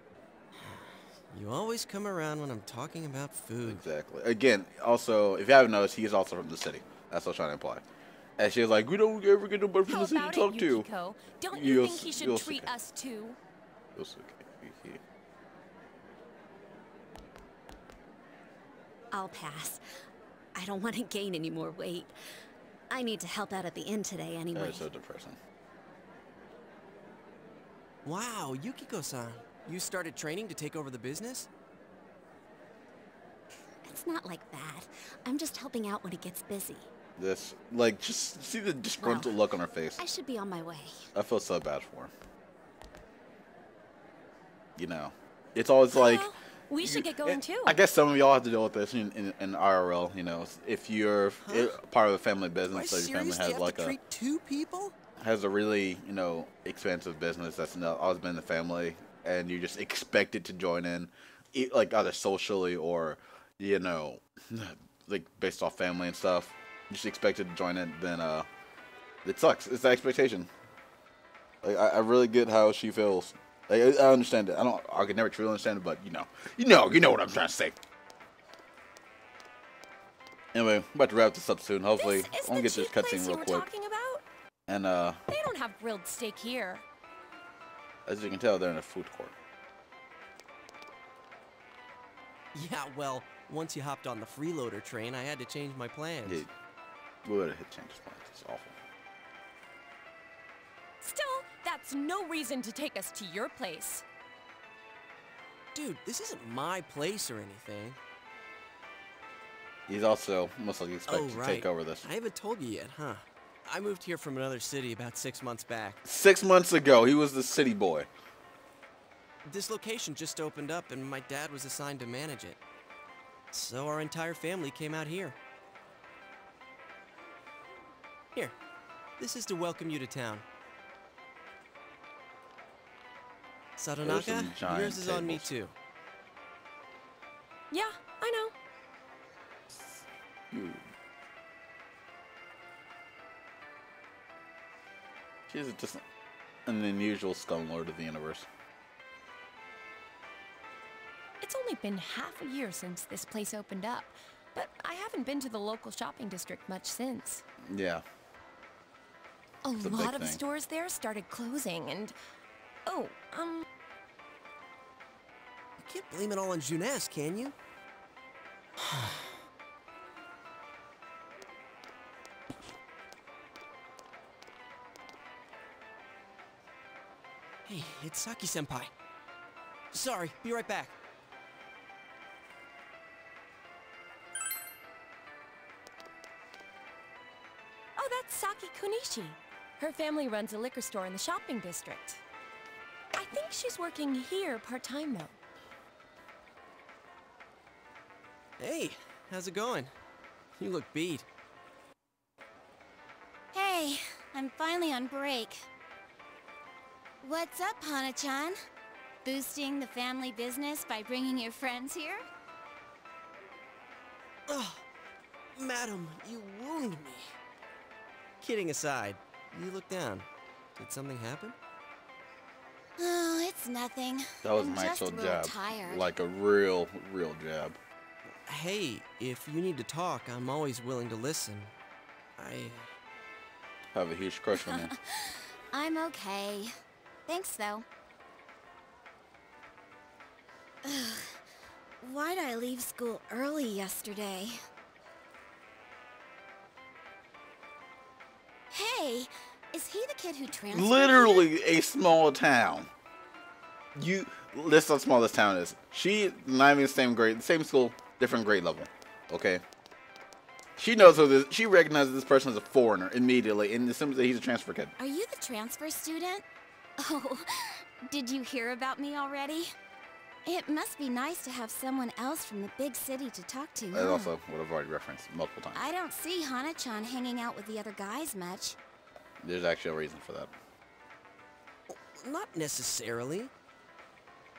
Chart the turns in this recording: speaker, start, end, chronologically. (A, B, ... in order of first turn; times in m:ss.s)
0:00.6-0:03.8 A
0:03.6-0:07.8 B
0:08.4-0:10.9 B
0:09.9-0:13.4 C
0:11.5-0:12.7 B
0:13.9-0:15.0 B
0:19.1-0:19.8 D
0:20.5-0:22.1 D
0:22.9-0:24.9 D
0:24.5-0:25.4 B
0:28.0-0:31.5 A
0:33.8-0:36.9 D
0:37.2-0:40.0 B
0:39.0-0:39.4 D
0:40.0-0:40.9 D
0:41.1-0:42.1 B
0:44.8-0:54.0 B
0:45.9-0:47.8 C
0:51.4-0:51.8 A
0:52.7-0:54.9 A
0:55.2-1:08.5 B
1:09.2-1:10.5 B
1:11.6-1:17.8 B
1:20.5-1:23.7 B
1:22.0-1:24.2 C
1:24.7-1:25.2 B
1:25.3-1:26.8 C
1:28.0-1:29.3 B
1:32.5-1:36.4 A
1:36.2-1:36.5 B
1:37.2-1:38.7 B
1:41.0-1:44.0 C
1:45.7-1:48.0 A
1:49.9-1:52.1 B
1:51.1-1:56.0 A
1:56.0-1:58.1 B
1:59.4-2:02.6 A
2:03.5-2:05.4 A
2:09.2-2:10.4 A
2:13.8-2:15.7 A
2:14.0-2:15.4 B
2:17.7-2:18.5 C
2:19.7-2:20.9 B
2:25.5-2:26.0 B
2:26.6-2:28.5 B
2:31.4-2:37.4 C
2:37.6-2:38.0 B
2:39.6-2:42.1 C
2:39.8-2:40.4 B
2:42.8-2:43.6 C
2:45.8-2:47.5 A
2:48.8-2:49.4 A
2:57.6-2:58.9 A
2:59.9-3:00.9 A
3:08.0-3:12.2 C
3:13.1-3:15.4 C
3:18.6-3:19.9 A
3:20.6-3:21.2 A
3:23.5-3:25.6 E
3:27.2-3:28.6 E
3:29.2-3:32.2 E
3:34.5-3:34.8 A
3:35.5-3:37.3 A
3:38.4-3:41.5 A
3:43.0-3:46.0 E
3:44.4-3:47.8 B
3:48.4-3:51.7 A
3:52.4-3:52.9 A
3:53.9-3:54.9 B
3:55.7-3:56.7 E
3:57.3-3:57.8 E
4:00.8-4:01.4 E
4:02.0-4:04.6 E
4:08.7-4:11.4 E
4:10.7-4:12.9 B
4:13.9-4:19.6 B
4:20.8-4:24.9 B
4:25.0-4:26.4 E
4:27.0-4:29.7 E
4:30.4-4:34.3 E
4:33.9-4:35.9 B
4:35.7-4:38.8 E
4:39.4-4:40.5 B
4:41.9-4:43.5 A